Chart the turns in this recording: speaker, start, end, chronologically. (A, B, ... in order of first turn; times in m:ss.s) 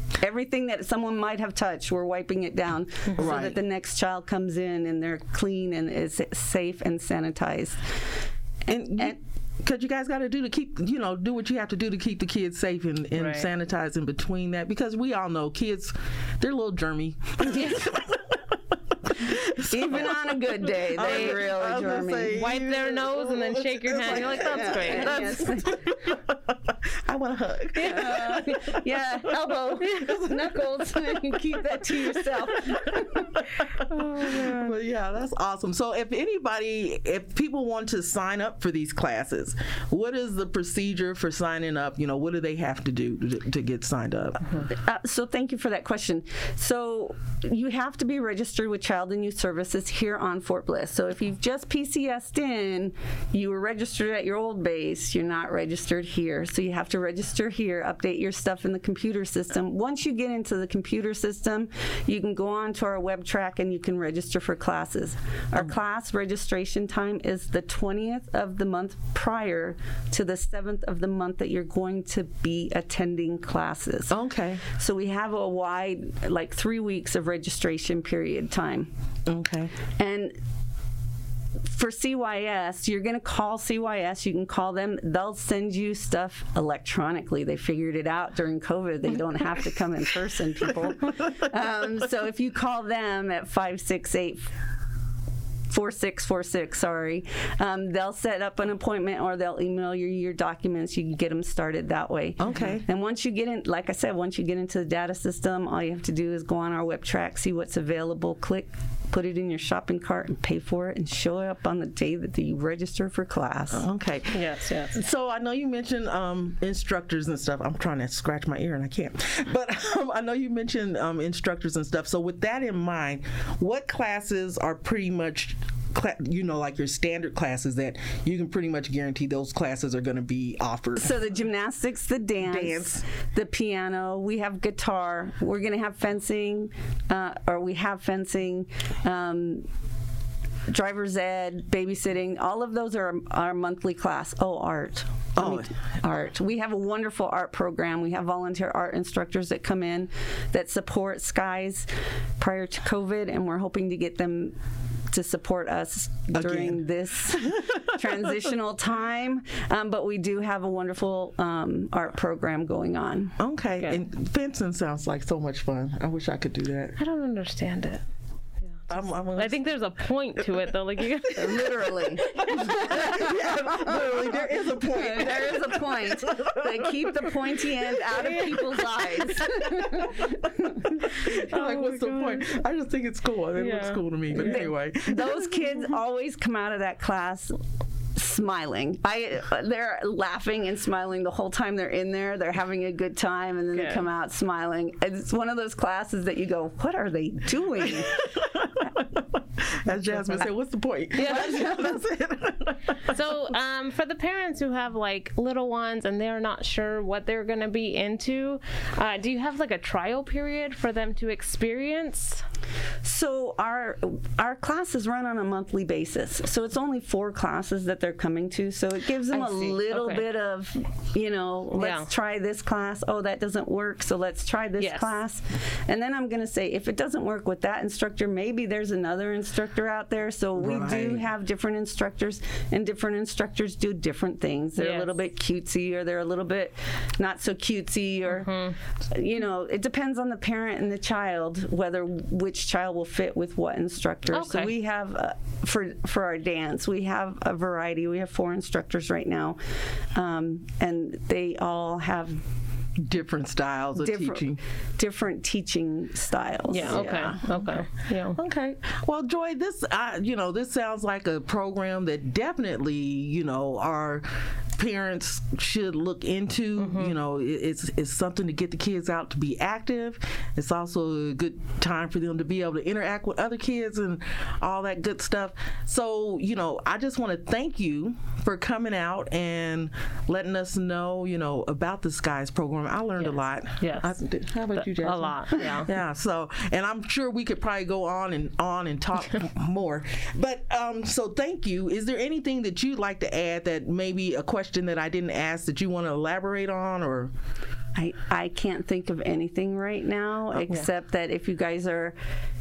0:00.2-0:08.0 A
0:03.2-0:03.6 B
0:08.7-0:31.3 B
0:08.9-0:09.2 A
0:13.2-0:13.5 C
0:17.4-0:17.9 C
0:19.6-0:22.4 A
0:21.0-0:21.5 C
0:22.3-0:25.8 C
0:24.1-0:25.9 A
0:27.7-0:33.4 A
0:27.8-0:28.3 C
0:31.9-0:44.6 B
0:33.9-0:34.7 C
0:44.7-1:18.9 A
1:14.1-1:14.6 B
1:19.3-1:19.7 B
1:20.0-1:20.4 A
1:21.7-1:34.5 A
1:35.7-1:53.8 A
1:42.4-1:42.8 B
1:53.7-2:11.2 B
1:54.3-1:54.9 C
2:11.0-2:19.7 A
2:12.4-2:13.0 B
2:20.7-2:34.6 A
2:25.4-2:25.7 B
2:35.1-2:43.4 A
2:36.3-2:38.2 B
2:43.4-2:47.0 B
2:47.0-2:48.0 C
2:48.6-2:53.1 C
2:48.9-2:49.6 B
2:50.4-2:50.7 B
2:51.3-3:01.2 A
2:52.3-3:05.4 B
3:01.2-3:02.5 C
3:03.6-3:04.7 C
3:04.3-3:07.6 A
3:08.1-3:18.2 A
3:13.8-3:14.0 C
3:17.8-3:23.2 B
3:20.0-3:20.4 A
3:21.2-3:22.0 A
3:21.2-3:21.7 C
3:23.1-3:32.4 C
3:33.0-4:12.4 A
3:39.3-3:40.2 C
3:41.7-3:42.1 C
3:44.8-3:45.2 C
3:50.6-3:51.3 B
3:54.8-3:55.1 C
3:58.3-3:58.7 C
4:04.3-4:04.7 C
4:13.0-4:14.6 B
4:14.0-4:17.5 A
4:16.7-4:18.4 C
4:16.8-4:17.7 B
4:18.3-4:57.3 B
4:26.8-4:27.1 C
4:43.2-4:44.2 C
4:44.7-4:45.9 C
4:58.0-5:02.2 A